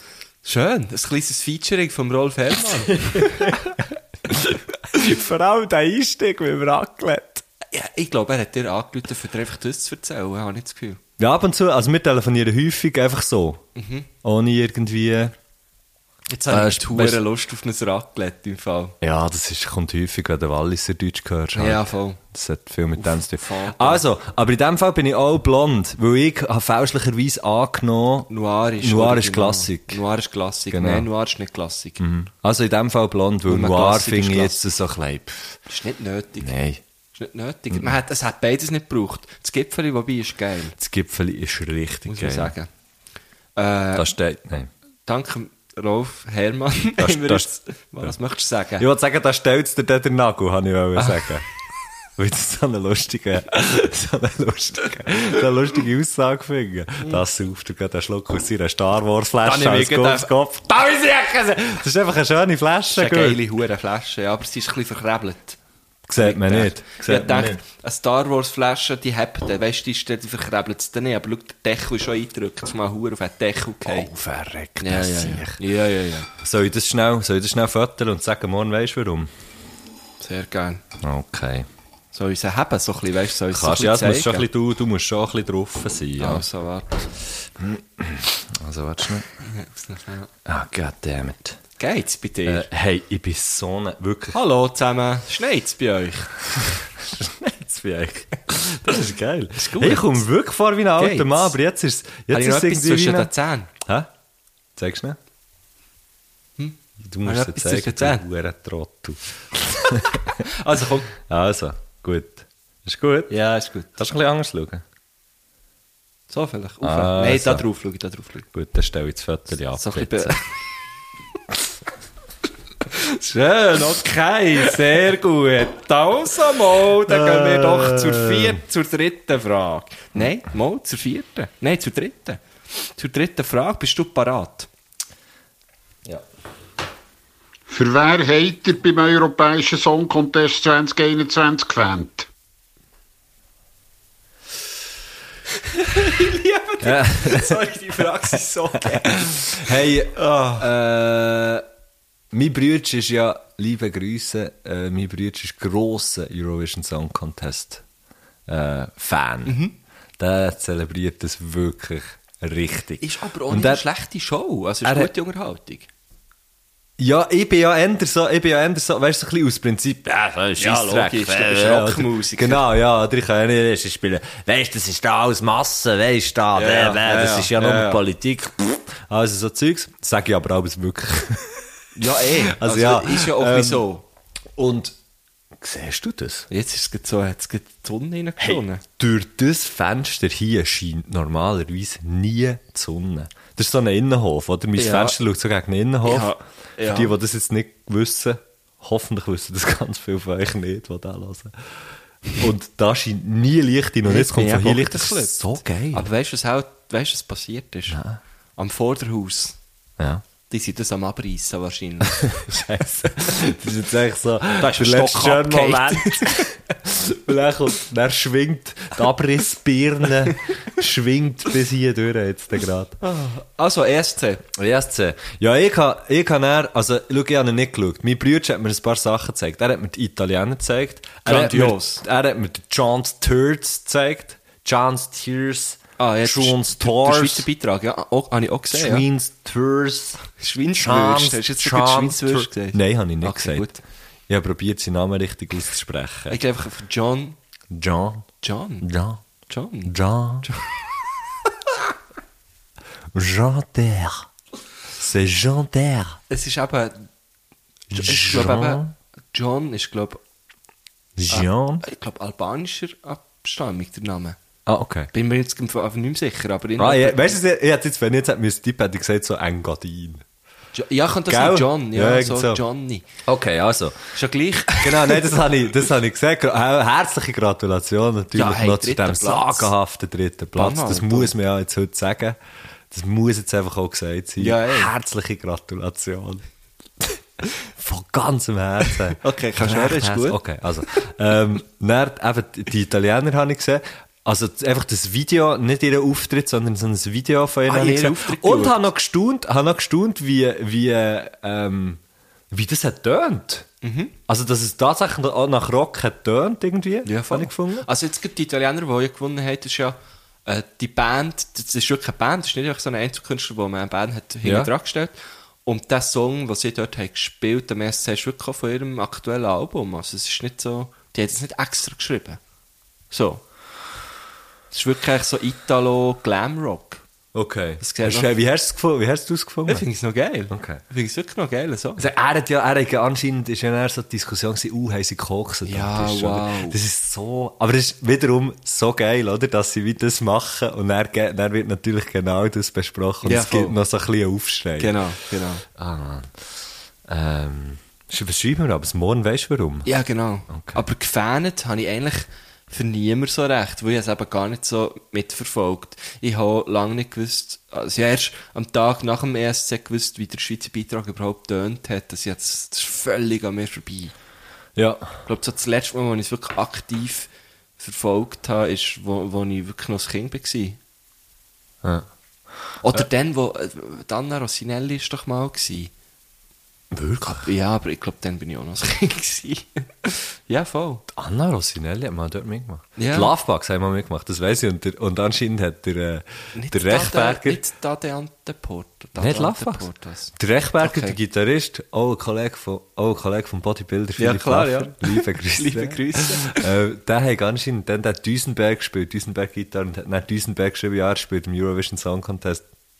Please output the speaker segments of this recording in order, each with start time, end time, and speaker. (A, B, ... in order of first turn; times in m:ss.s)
0:00.4-0:03.5 A
0:03.1-0:07.4 B
0:07.7-0:11.0 A
0:11.2-0:13.6 B
0:13.7-0:14.1 A
0:14.2-0:15.3 B
0:16.3-0:19.0 A
0:16.5-0:17.2 B
0:19.0-0:30.0 B
0:21.5-0:22.2 A
0:23.0-0:24.0 A
0:28.3-0:32.0 A
0:30.7-0:31.1 B
0:32.0-0:35.6 B
0:33.5-0:34.6 A
0:35.7-0:36.6 A
0:36.4-0:36.8 B
0:37.1-0:40.8 A
0:40.8-0:42.5 B
0:42.0-0:42.7 A
0:43.6-0:44.1 A
0:43.9-0:44.7 B
0:45.1-0:48.8 A
0:47.0-0:47.5 B
0:48.8-0:51.4 B
0:52.2-1:03.4 B
0:59.4-1:00.3 A
1:02.9-1:05.6 A
1:06.1-1:07.6 B
1:06.2-1:14.1 A
1:13.8-1:15.6 B
1:14.8-1:16.3 A
1:16.3-1:19.3 B
1:20.2-1:20.8 A
1:21.0-1:21.7 B
1:22.1-1:24.4 A
1:23.5-1:26.4 B
1:26.2-1:27.1 A
1:27.6-1:29.3 B
1:29.4-1:30.3 A
1:30.4-1:31.6 B
1:31.8-1:32.7 A
1:32.4-1:34.4 B
1:34.3-1:36.3 A
1:37.0-1:44.1 B
1:39.6-1:40.2 A
1:41.0-1:41.5 A
1:42.3-1:43.7 A
1:44.8-1:45.2 B
1:46.6-1:48.2 A
1:47.0-1:50.3 B
1:50.4-1:51.1 A
1:51.2-1:53.3 B
1:53.3-1:53.9 A
1:53.9-1:54.8 B
1:56.3-1:58.5 A
1:56.8-1:57.6 B
1:58.5-2:00.3 B
1:59.7-2:00.5 A
2:02.9-2:14.7 A
2:07.1-2:08.6 B
2:17.7-2:22.3 C
2:25.8-2:30.7 A
2:26.8-2:27.6 B
2:28.9-2:31.6 B
2:32.3-2:37.8 B
2:38.5-2:39.6 B
2:39.4-2:39.7 A
2:40.2-2:43.8 B
2:43.0-2:45.9 A
2:44.8-2:45.1 B
2:47.0-3:01.6 B
2:50.6-2:52.7 A
2:56.5-2:58.0 A
3:02.0-3:04.0 A
3:02.2-3:03.8 B
3:04.6-3:05.0 B
3:05.6-3:06.5 B
3:06.5-3:08.8 A
3:08.4-3:21.8 B
3:14.8-3:15.2 A
3:16.0-3:17.1 A
3:22.4-3:26.1 B
3:24.0-3:28.0 A
3:27.9-3:28.2 B
3:28.6-3:29.6 A
3:30.5-3:32.3 A
3:32.1-3:43.0 B
3:34.6-3:36.6 A
3:43.0-3:44.4 A
3:44.5-3:57.5 B
3:51.2-3:52.0 A
3:56.0-3:59.0 A
3:58.7-4:00.2 B
4:00.3-4:03.8 A
4:00.7-4:03.7 B
4:04.3-4:06.4 B
4:06.3-4:07.4 A
4:07.7-4:08.3 B
4:08.4-4:08.9 A
4:08.8-4:09.2 B
4:09.5-4:10.7 A
4:09.8-4:10.5 B
4:13.1-4:14.3 B
4:15.0-4:16.2 B
4:16.3-4:17.1 A
4:17.9-4:18.9 B
4:17.9-4:20.2 A
4:21.2-4:21.8 B
4:21.3-4:24.4 A
4:24.6-4:25.1 B
4:25.1-4:27.4 A
4:26.8-4:30.2 B
4:30.7-4:33.0 A
4:31.3-4:32.6 B
4:33.2-4:34.1 B
4:34.1-4:35.3 A
4:34.8-4:42.4 B
4:38.3-4:39.7 A
4:40.5-4:41.3 A
4:42.9-4:46.4 B
4:44.4-4:44.9 A
4:47.0-5:02.0 B
4:49.2-4:50.4 A
4:57.6-4:58.9 A
5:02.5-5:03.7 B
5:03.8-5:04.1 A
5:04.3-5:07.9 B
5:07.0-5:22.4 A
5:14.4-5:14.7 B
5:23.1-5:23.4 A
5:24.7-5:27.0 A
5:27.3-5:29.8 B
5:27.8-5:28.3 A
5:29.7-5:32.0 A
5:30.5-5:30.8 B
5:32.0-5:45.1 B
5:35.6-5:36.8 A
5:43.2-5:43.8 A
5:44.8-5:45.6 A
5:45.7-5:49.9 B
5:49.8-6:04.1 A
5:50.5-5:50.8 B
6:04.8-6:05.2 B
6:05.2-6:10.8 A
6:11.8-6:12.1 B
6:12.8-6:15.9 A
6:16.9-6:17.5 B
6:17.4-6:21.0 A
6:21.1-6:27.6 B
6:23.0-6:23.3 A
6:26.5-6:31.2 A
6:29.2-6:42.6 B
6:34.2-6:36.6 A